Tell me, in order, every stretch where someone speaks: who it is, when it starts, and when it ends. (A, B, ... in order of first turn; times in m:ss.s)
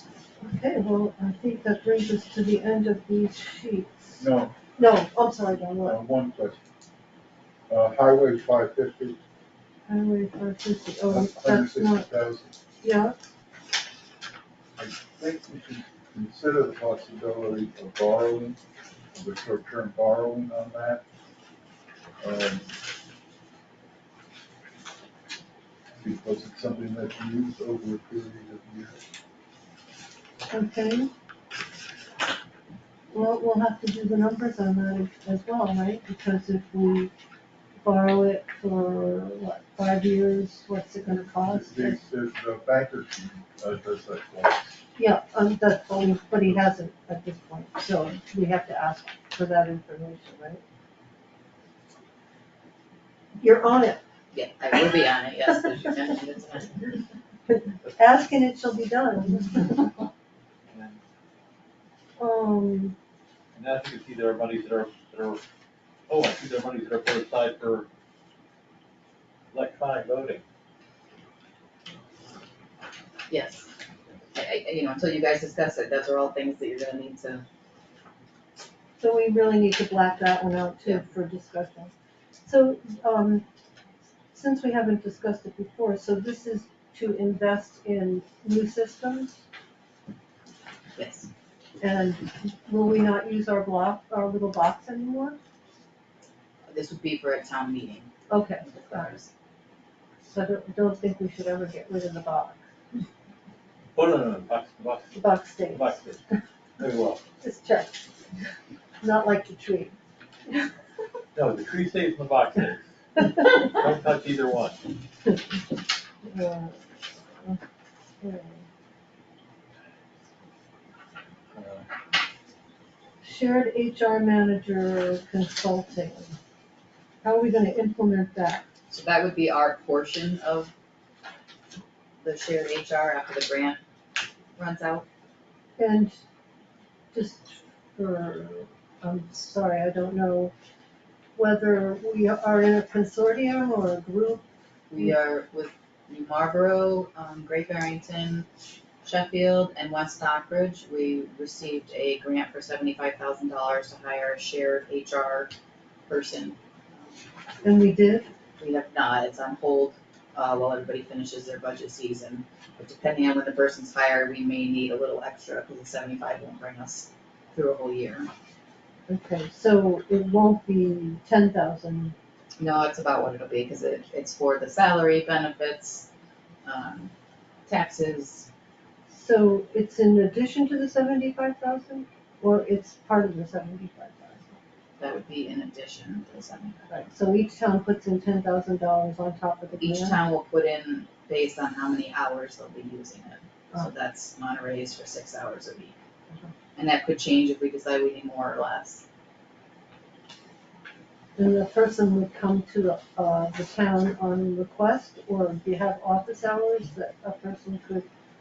0:00.4-0:04.2 A
0:04.2-0:04.6 B
0:04.8-0:06.0 A
0:05.8-0:06.6 B
0:07.7-0:09.2 B
0:09.9-0:12.0 A
0:11.1-0:12.5 B
0:12.8-0:13.2 A
0:14.8-0:18.6 B
0:19.1-0:21.0 B
0:22.2-0:22.7 B
0:26.0-0:29.0 B
0:30.5-0:31.1 A
0:33.1-0:37.1 A
0:37.8-0:42.0 A
0:41.5-0:44.8 B
0:45.0-0:50.6 A
0:53.4-0:54.0 A
0:54.3-0:57.0 C
0:57.5-0:59.9 A
1:00.7-1:01.0 D
1:02.2-1:03.0 A
1:03.5-1:05.4 D
1:06.1-1:07.9 D
1:09.5-1:10.4 D
1:13.3-1:13.7 C
1:14.3-1:17.4 C
1:19.0-1:21.9 A
1:22.5-1:23.4 A
1:24.3-1:29.4 A
1:31.0-1:31.3 C
1:31.8-1:35.4 A
1:36.7-1:39.3 C
1:38.3-1:39.1 A
1:40.2-1:42.6 A
1:44.0-1:46.2 D
1:45.1-1:46.0 A
1:46.8-1:47.2 D
1:47.4-1:48.0 A
1:49.0-1:50.0 A
1:51.3-1:54.8 D
1:56.2-1:56.8 A
1:58.2-1:58.6 A
2:01.5-2:01.9 D
2:03.2-2:06.4 A
2:07.2-2:08.6 A
2:08.9-2:10.7 C
2:12.2-2:13.8 C
2:14.6-2:15.1 C
2:15.8-2:16.2 A
2:17.1-2:20.5 A
2:21.4-2:24.4 A
2:24.9-2:28.5 C
2:29.0-2:35.5 C
2:36.1-2:37.3 C
2:37.6-2:38.3 A
2:38.6-2:48.3 C
2:49.1-2:52.2 A
2:52.6-2:56.1 C
2:56.6-2:57.1 C
2:57.7-2:58.5 C
2:59.1-3:04.6 A
3:05.0-3:06.9 C
3:06.9-3:10.2 A
3:09.8-3:16.0 C
3:16.8-3:19.0 C
3:21.4-3:28.1 A